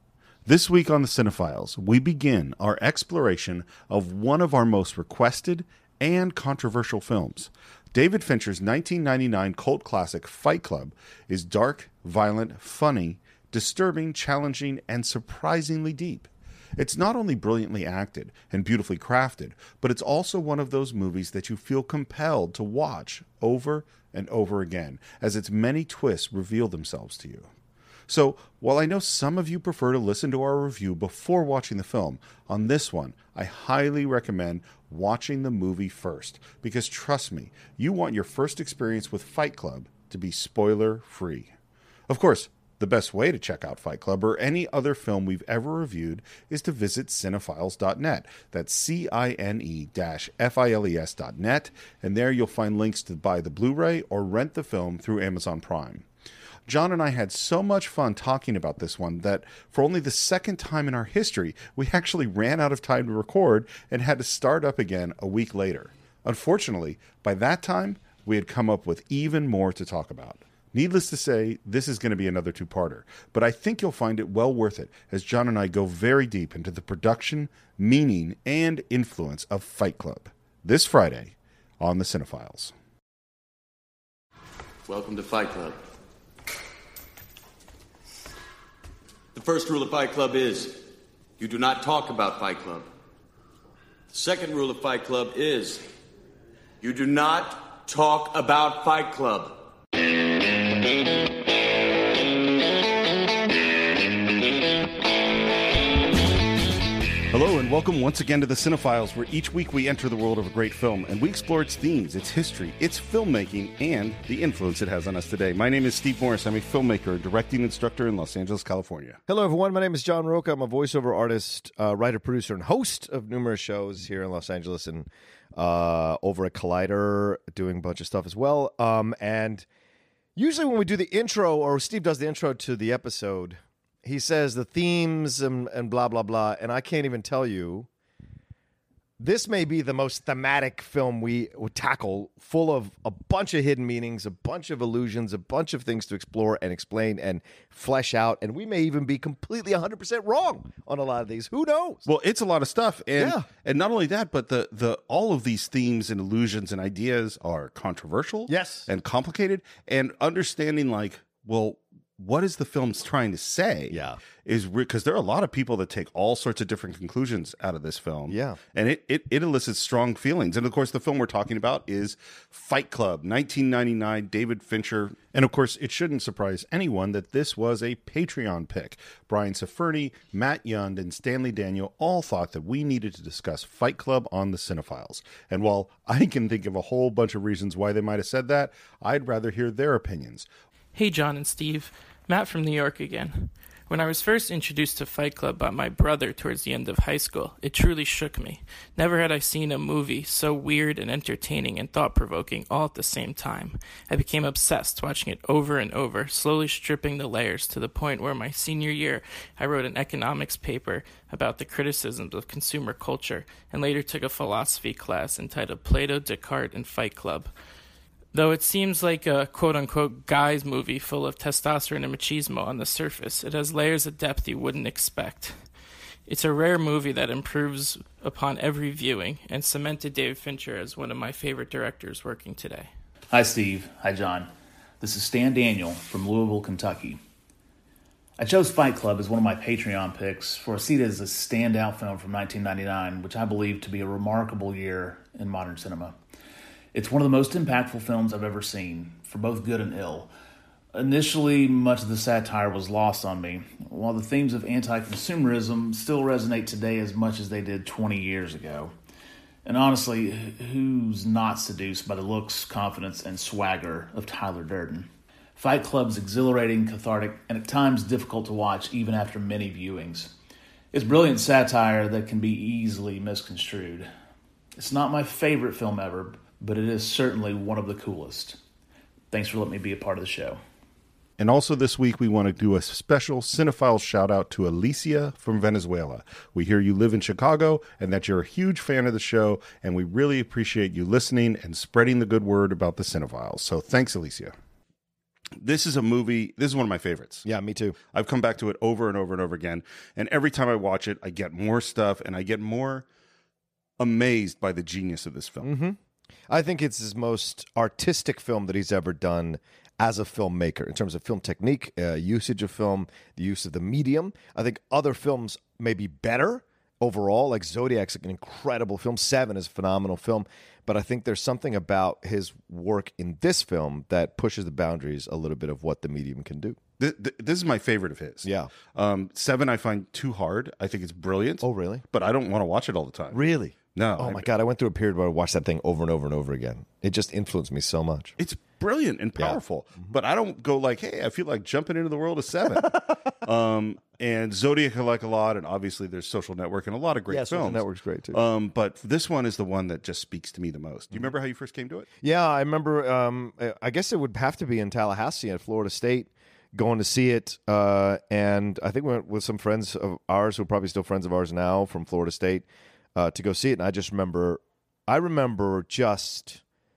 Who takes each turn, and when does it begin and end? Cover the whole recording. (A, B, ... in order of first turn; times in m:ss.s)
0:00.5-0:27.5 A
0:28.1-0:41.5 A
0:42.1-0:56.0 A
0:56.7-1:22.7 A
1:24.9-1:25.8 B
1:29.3-1:30.8 B
1:31.4-1:32.9 B
1:34.1-1:35.8 B
1:36.8-1:39.6 B
1:47.3-1:59.2 A
1:59.3-2:09.7 C
2:10.4-2:17.9 C
2:19.2-2:32.1 C
2:32.0-3:10.5 A
2:33.2-2:33.5 C
2:38.5-2:38.9 C
2:43.9-2:44.2 C
2:48.3-2:48.6 C
3:10.9-3:37.5 D
3:38.3-3:45.6 D
3:46.3-3:52.9 D
3:53.3-3:57.2 E
3:58.4-4:06.2 E
4:06.9-4:10.3 E
4:10.9-4:18.9 E
4:19.6-4:30.3 E
4:30.9-4:34.1 E
4:34.8-4:38.6 E
4:39.3-4:40.6 E
4:41.4-4:54.5 A
4:55.6-4:57.4 A
4:57.4-4:58.0 C
4:58.1-5:03.0 A
5:04.0-5:05.7 A
5:05.6-5:06.0 C
5:06.5-5:26.8 C
5:27.0-5:33.4 A
5:28.4-5:28.7 C
5:31.6-5:32.0 C
5:33.3-5:38.3 C
5:33.9-5:34.5 A
5:38.4-5:52.0 A
5:39.4-5:40.1 C
5:47.3-5:48.4 C
5:52.2-6:06.6 C